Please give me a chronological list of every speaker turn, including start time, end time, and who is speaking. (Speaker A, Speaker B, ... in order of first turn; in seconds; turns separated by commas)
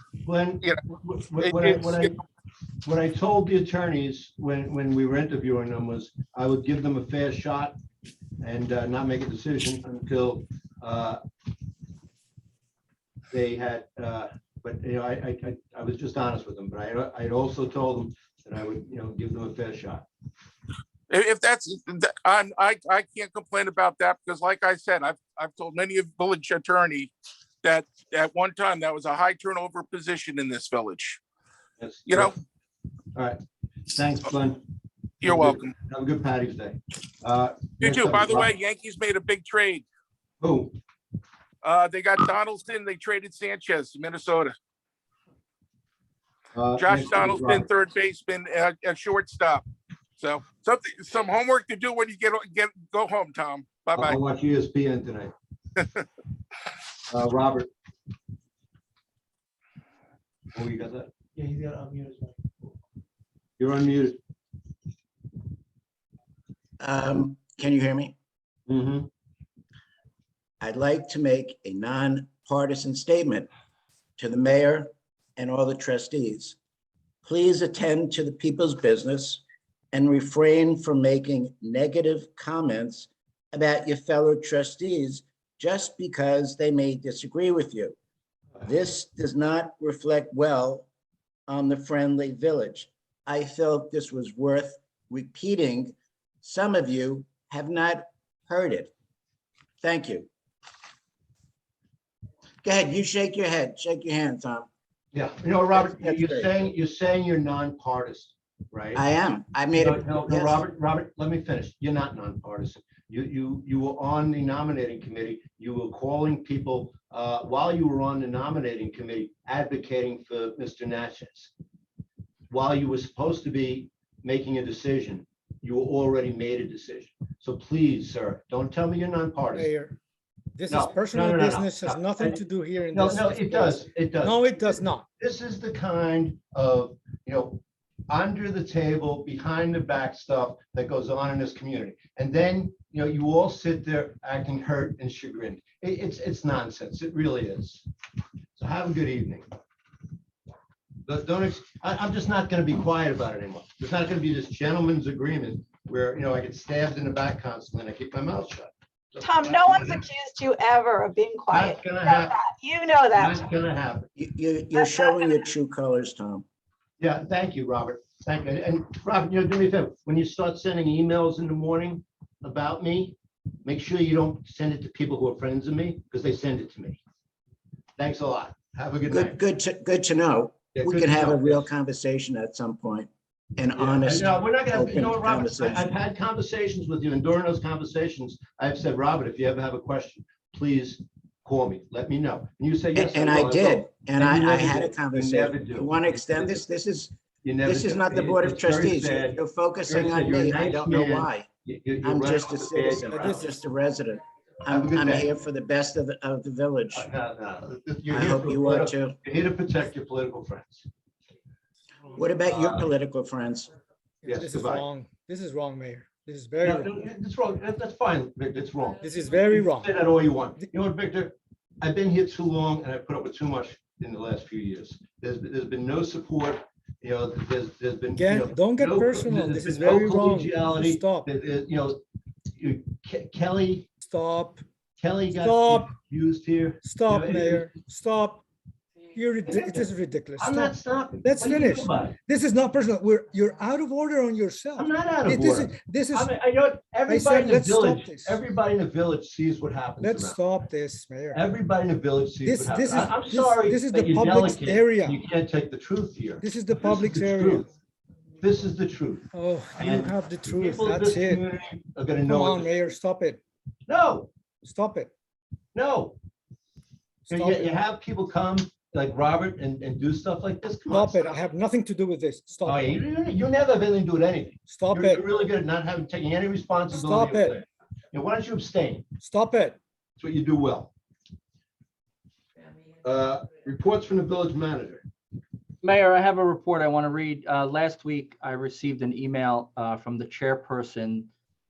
Speaker A: 0.2-2.1, Speaker B: 1.4-2.1, Speaker A: 2.8-7.8, Speaker A: 8.4-11.2, Speaker A: 13.3-20.1, Speaker B: 21.1-27.1, Speaker B: 27.6-31.2, Speaker A: 31.8-32.3, Speaker B: 32.1-32.3, Speaker A: 33.1-33.4, Speaker A: 33.9-34.6, Speaker A: 35.2-38.5, Speaker B: 35.2-35.7, Speaker B: 37.8-39.8, Speaker A: 40.4-40.8, Speaker B: 41.6-44.5, Speaker A: 46.5-47.7, Speaker B: 46.8-49.6, Speaker B: 50.2-54.2, Speaker A: 54.0-55.3, Speaker A: 57.1-57.7, Speaker A: 60.5-62.6, Speaker A: 63.6-64.2, Speaker C: 66.8-68.2, Speaker A: 68.7-69.1, Speaker C: 70.6-73.5, Speaker C: 74.2-76.6, Speaker C: 77.2-88.0, Speaker C: 88.6-90.9, Speaker C: 91.5-98.9, Speaker C: 99.8-100.3, Speaker C: 102.6-104.7, Speaker A: 105.1-109.0, Speaker C: 105.7-106.6, Speaker C: 109.0-110.6, Speaker A: 109.8-121.5, Speaker A: 122.5-129.7, Speaker D: 129.5-130.0, Speaker D: 130.6-135.1, Speaker A: 130.7-132.4, Speaker A: 132.9-147.8, Speaker A: 148.6-149.5, Speaker A: 151.1-160.0, Speaker E: 159.2-163.4, Speaker A: 161.5-162.4, Speaker A: 163.1-164.1, Speaker C: 164.2-166.4, Speaker E: 164.7-165.4, Speaker A: 167.0-177.0, Speaker A: 178.0-179.4, Speaker C: 179.1-185.9, Speaker A: 180.7-181.7, Speaker A: 183.8-196.6, Speaker C: 192.9-197.1, Speaker A: 197.4-203.5, Speaker C: 197.6-201.5, Speaker C: 202.0-207.1, Speaker D: 203.1-203.4, Speaker A: 204.7-205.3, Speaker A: 206.9-210.9, Speaker C: 208.1-209.2, Speaker C: 212.1-213.7, Speaker A: 212.4-212.9, Speaker D: 214.2-216.9, Speaker A: 214.2-214.9, Speaker A: 216.6-232.0, Speaker D: 219.0-219.9, Speaker D: 228.1-231.3, Speaker A: 232.5-233.9, Speaker D: 234.0-234.6, Speaker A: 235.0-237.8, Speaker D: 235.3-235.9, Speaker D: 236.8-238.4, Speaker D: 239.1-246.3, Speaker A: 239.4-242.2, Speaker A: 244.8-250.7, Speaker D: 247.1-248.4, Speaker D: 250.0-251.4, Speaker A: 251.3-257.7, Speaker D: 252.4-255.2, Speaker D: 256.4-257.7, Speaker A: 258.4-262.7, Speaker D: 259.3-261.4, Speaker D: 262.2-263.4, Speaker A: 263.9-264.3, Speaker D: 264.6-265.1, Speaker A: 265.8-266.2, Speaker D: 267.3-267.7, Speaker A: 267.3-271.4, Speaker D: 270.9-273.0, Speaker A: 272.6-279.1, Speaker D: 274.7-275.2, Speaker D: 276.9-277.6, Speaker D: 279.2-279.8, Speaker A: 280.2-280.9, Speaker A: 283.0-285.1, Speaker F: 285.8-291.3